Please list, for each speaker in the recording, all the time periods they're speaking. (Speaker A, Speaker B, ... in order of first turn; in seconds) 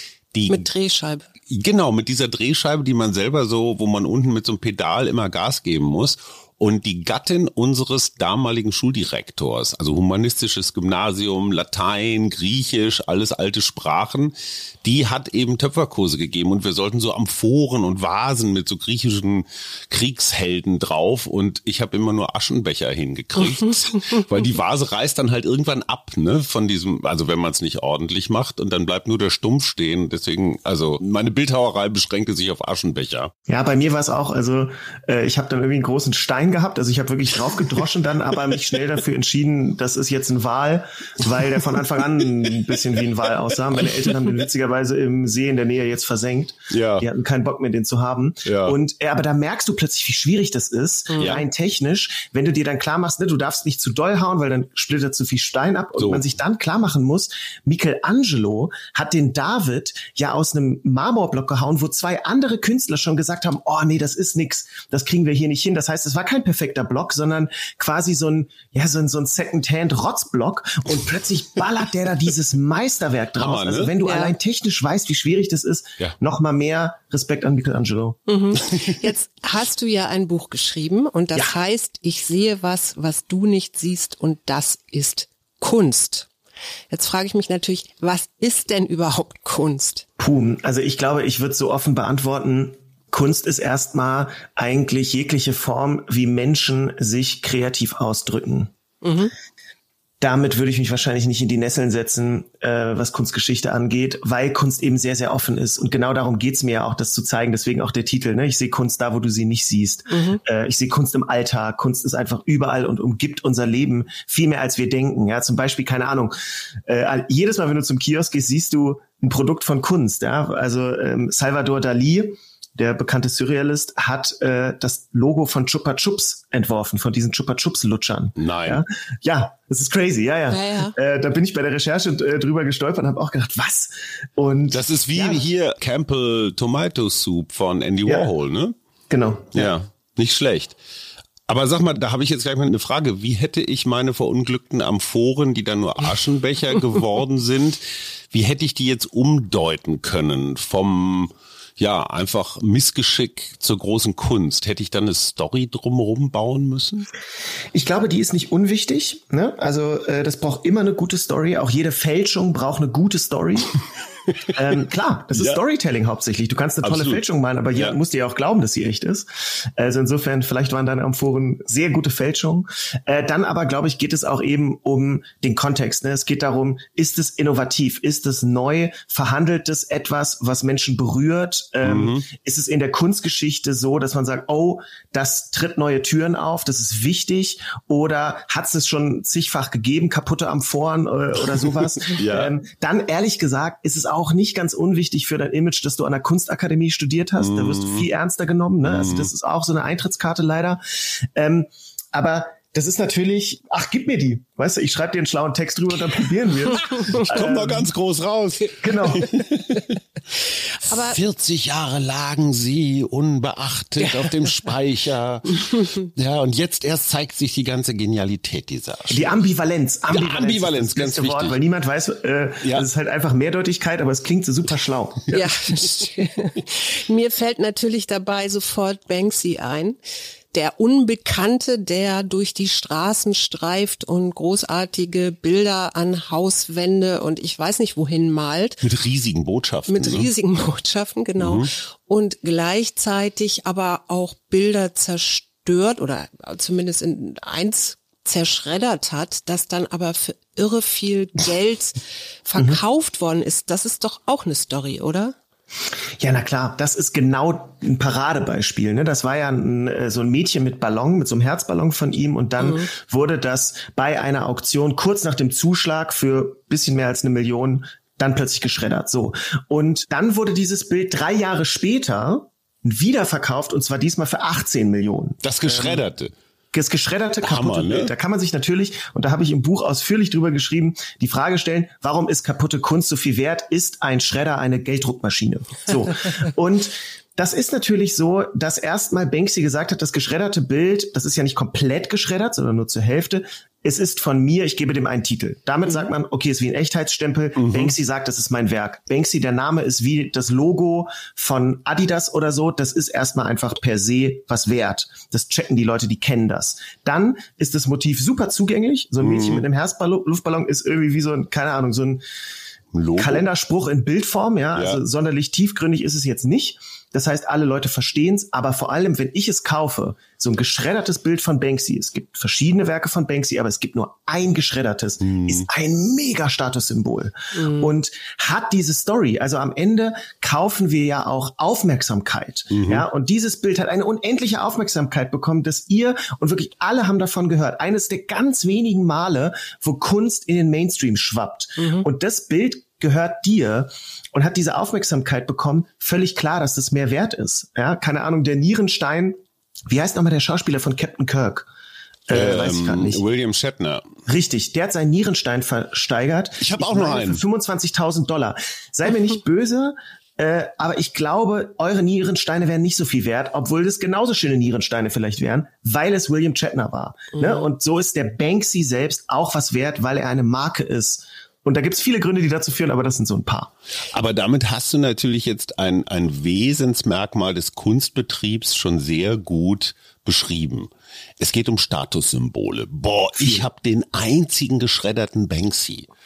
Speaker A: 0.3-0.7, 1.5-33.3, 43.8-44.1, 46.7-47.0, 48.4-48.8, 51.2-51.4, 56.0-56.2, 73.4-73.9, 128.4-128.8, 134.7-138.7, 139.5-140.8, 141.5-157.1, 165.3-165.6, 166.8-167.2, 181.8-182.3, 191.5-192.5, 197.4-198.1, 198.8-199.3, 207.1-209.9, 210.8-219.4, 220.1-221.6, 238.8-240.3, 241.4-241.7, 275.4-276.3, 277.4-278.1, 297.6-297.9, 309.2-309.6, 312.9-313.4, 314.7-315.0, 325.2-325.7, 332.7-333.0, 352.3-354.1, 356.6-357.4, 374.1-386.1
Speaker B: 0.5-1.3, 51.1-51.4, 74.0-74.3, 78.3-86.3, 86.9-90.0, 99.0-99.3, 110.1-110.4, 130.5-130.9, 210.8-211.2, 214.0-214.3, 225.3-230.0, 230.5-238.8, 239.9-255.3, 262.6-262.9, 327.5-327.9, 341.8-342.1, 367.4-367.6
Speaker C: 33.5-78.2, 90.2-98.7, 100.2-135.4, 139.1-139.7, 157.7-163.7, 164.5-207.9, 208.8-209.3, 219.1-225.5, 256.2-276.0, 276.7-312.2, 313.2-351.7, 352.3-353.2, 354.3-373.7, 383.4-383.6